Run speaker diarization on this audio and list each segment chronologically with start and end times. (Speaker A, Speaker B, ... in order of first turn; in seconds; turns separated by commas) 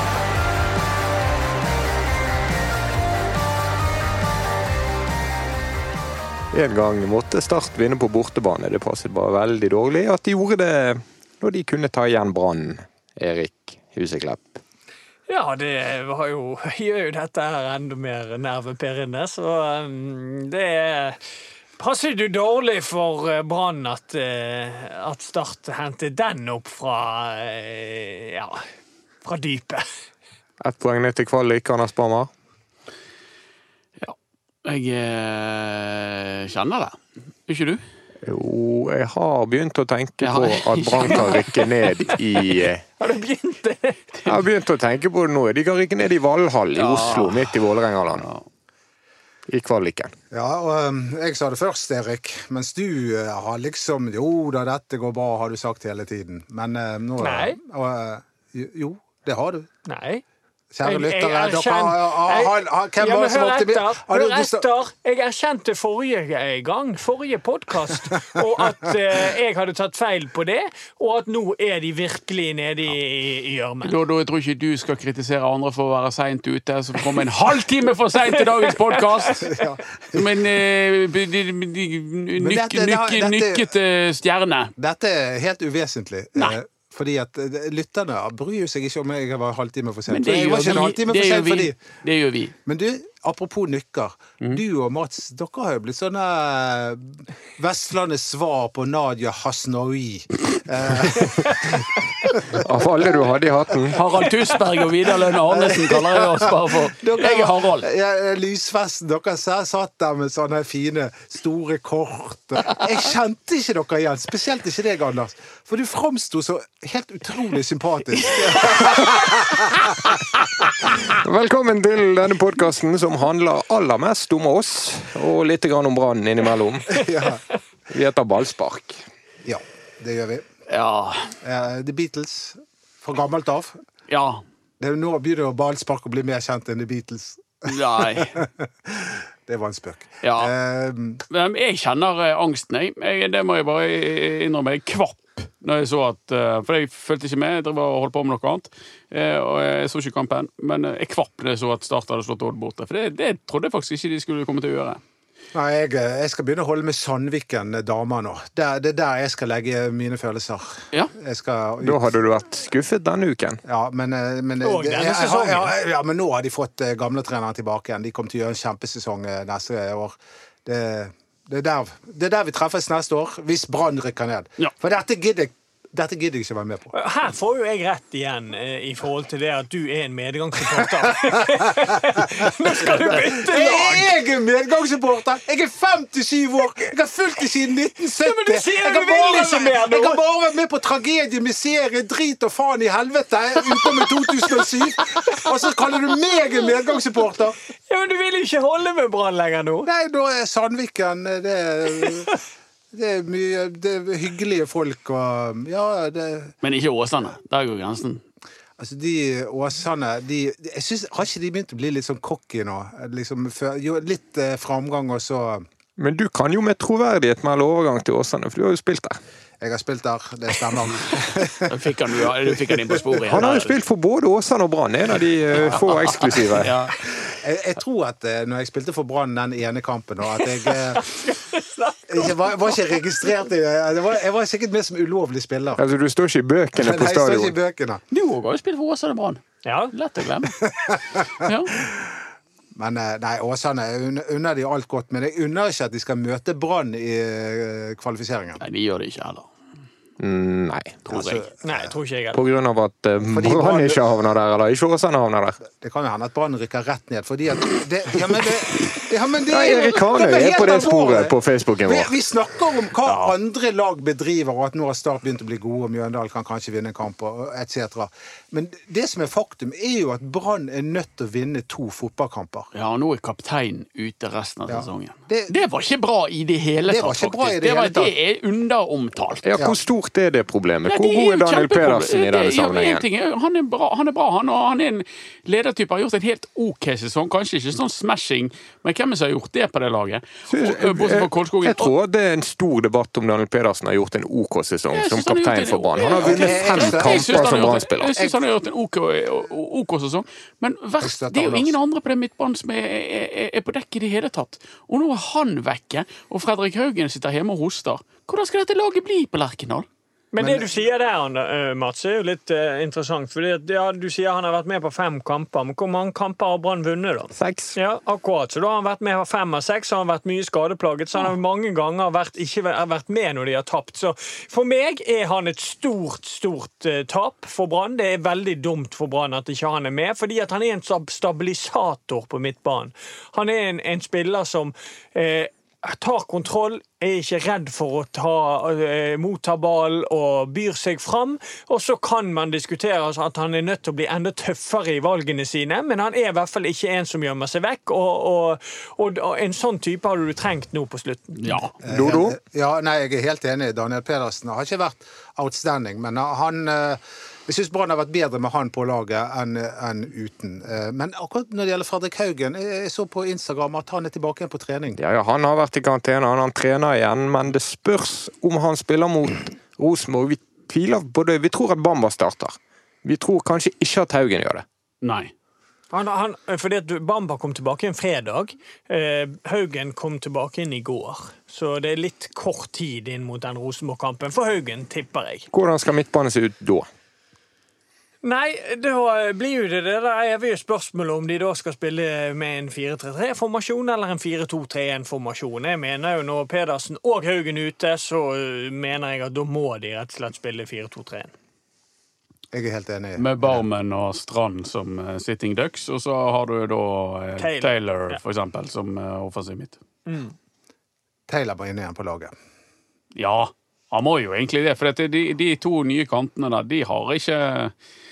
Speaker A: 6.5-14.6, Speaker B: 15.3-21.2, Speaker B: 21.8-28.6, Speaker B: 29.2-29.9, Speaker A: 30.6-32.3, Speaker C: 34.0-37.8, Speaker A: 38.2-42.8, Speaker C: 40.2-42.5, Speaker B: 43.0-44.1, Speaker A: 44.2-48.2, Speaker C: 46.7-48.4, Speaker A: 49.5-50.1, Speaker D: 50.3-59.7, Speaker B: 57.2-57.6, Speaker B: 59.9-60.2, Speaker D: 60.7-64.6, Speaker B: 60.8-73.9, Speaker C: 73.8-79.5, Speaker B: 78.2-78.9, Speaker D: 79.4-80.4, Speaker C: 80.1-84.7, Speaker D: 82.3-83.7, Speaker D: 84.8-91.7, Speaker C: 90.1-92.5, Speaker D: 92.7-104.0, Speaker A: 102.5-104.0, Speaker C: 103.9-107.9, Speaker D: 105.4-120.2, Speaker A: 121.0-127.0, Speaker D: 126.9-127.4, Speaker A: 127.9-129.0, Speaker D: 129.4-130.4, Speaker C: 130.7-131.3, Speaker D: 131.4-133.8, Speaker C: 134.1-134.4, Speaker D: 134.8-141.2, Speaker C: 137.6-138.3, Speaker C: 140.2-140.5, Speaker C: 141.3-155.0, Speaker D: 155.5-162.1, Speaker A: 161.8-163.6, Speaker D: 163.6-176.9, Speaker B: 164.6-165.7, Speaker B: 176.9-184.1, Speaker D: 181.1-182.2, Speaker D: 182.8-197.6, Speaker B: 188.2-190.2, Speaker B: 197.9-199.9, Speaker D: 199.8-202.3, Speaker B: 201.9-202.2, Speaker D: 202.9-206.6, Speaker C: 206.6-208.2, Speaker D: 208.8-215.7, Speaker A: 216.0-219.2, Speaker D: 219.6-221.7, Speaker C: 221.6-223.8, Speaker D: 222.5-223.5, Speaker A: 223.3-226.7, Speaker D: 225.5-225.8, Speaker C: 225.5-226.9, Speaker D: 227.3-231.2, Speaker B: 230.9-232.9, Speaker D: 232.1-235.8, Speaker A: 235.8-237.5, Speaker D: 236.8-238.0, Speaker C: 238.1-240.6, Speaker B: 239.6-239.9, Speaker D: 240.6-242.2, Speaker C: 241.4-241.8, Speaker D: 242.7-248.6, Speaker C: 248.6-249.5, Speaker A: 250.2-251.0, Speaker C: 251.1-251.4, Speaker D: 251.1-251.9, Speaker B: 251.6-252.4, Speaker A: 252.3-255.6, Speaker D: 253.3-254.2, Speaker D: 255.6-272.7, Speaker A: 259.5-262.1, Speaker C: 263.0-263.3, Speaker C: 272.7-279.4, Speaker D: 274.7-275.6, Speaker D: 276.8-278.1, Speaker A: 279.4-283.0, Speaker C: 280.9-291.9, Speaker A: 290.5-298.1, Speaker C: 294.9-309.9, Speaker D: 296.2-298.4, Speaker D: 301.0-301.8, Speaker B: 310.3-351.6, Speaker D: 310.4-310.7, Speaker A: 317.4-317.7, Speaker C: 351.4-351.7, Speaker D: 351.8-365.0, Speaker A: 351.8-352.4, Speaker A: 365.0-374.6, Speaker C: 375.0-375.3, Speaker B: 375.9-385.5, Speaker A: 385.5-386.9, Speaker B: 388.2-401.3, Speaker D: 402.5-403.6, Speaker C: 403.2-409.8, Speaker B: 407.4-408.2, Speaker B: 410.1-410.3, Speaker D: 411.3-412.3, Speaker C: 413.1-417.7